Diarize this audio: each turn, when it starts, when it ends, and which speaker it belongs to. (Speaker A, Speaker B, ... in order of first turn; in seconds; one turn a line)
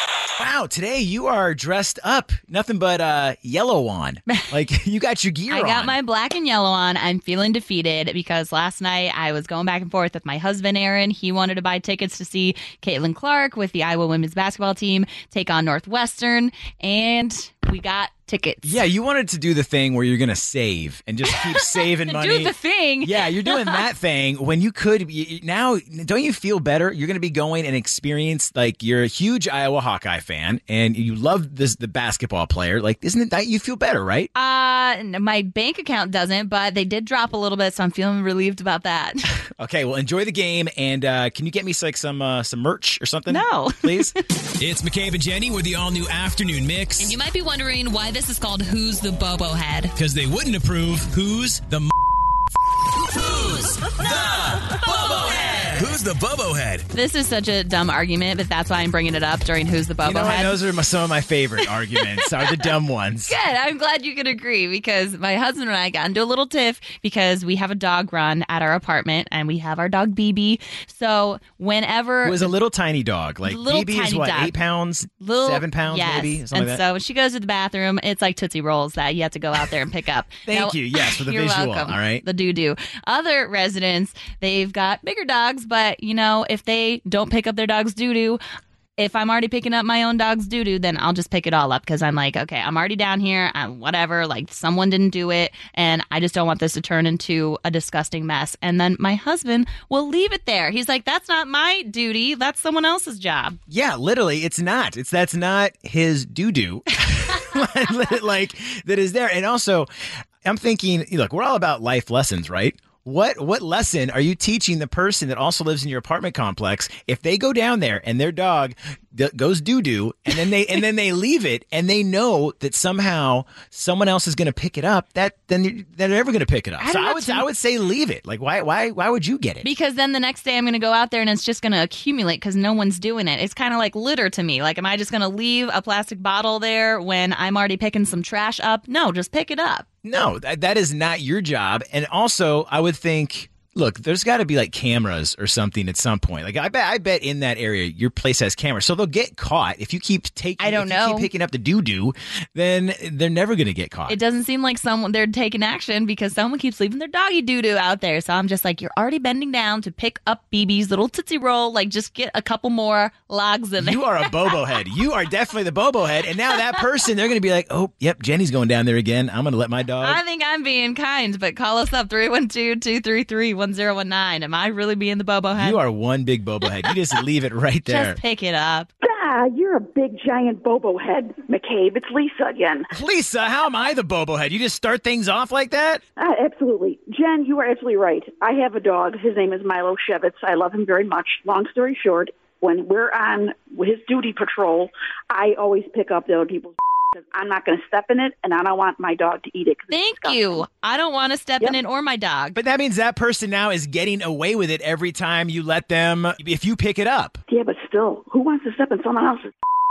Speaker A: 0.4-6.0
Speaker B: 5.5-18.8
Speaker A: 18.6-34.3
Speaker B: 21.2-23.8
Speaker B: 34.3-39.2
Speaker A: 39.6-47.1
Speaker B: 43.3-44.2
Speaker B: 47.0-49.9
Speaker A: 50.0-51.9
Speaker A: 53.1-56.9
Speaker B: 56.9-60.6
Speaker A: 60.0-63.3
Speaker B: 61.9-62.5
Speaker B: 63.2-72.5
Speaker A: 72.2-76.8
Speaker B: 73.4-74.5
Speaker B: 75.2-88.4
Speaker A: 80.5-82.2
Speaker B: 89.0-103.6
Speaker A: 103.7-109.9
Speaker A: 110.4-129.7
Speaker B: 126.8-127.5
Speaker B: 129.6-139.8
Speaker A: 140.0-154.2
Speaker B: 150.6-151.3
Speaker B: 154.1-164.5
Speaker A: 163.8-170.2
Speaker B: 170.0-175.8
Speaker A: 175.5-178.2
Speaker B: 177.8-178.9
Speaker C: 179.0-182.9
Speaker A: 182.9-186.0
Speaker C: 186.2-200.4
Speaker B: 199.9-202.6
Speaker A: 202.5-207.4
Speaker C: 207.5-209.5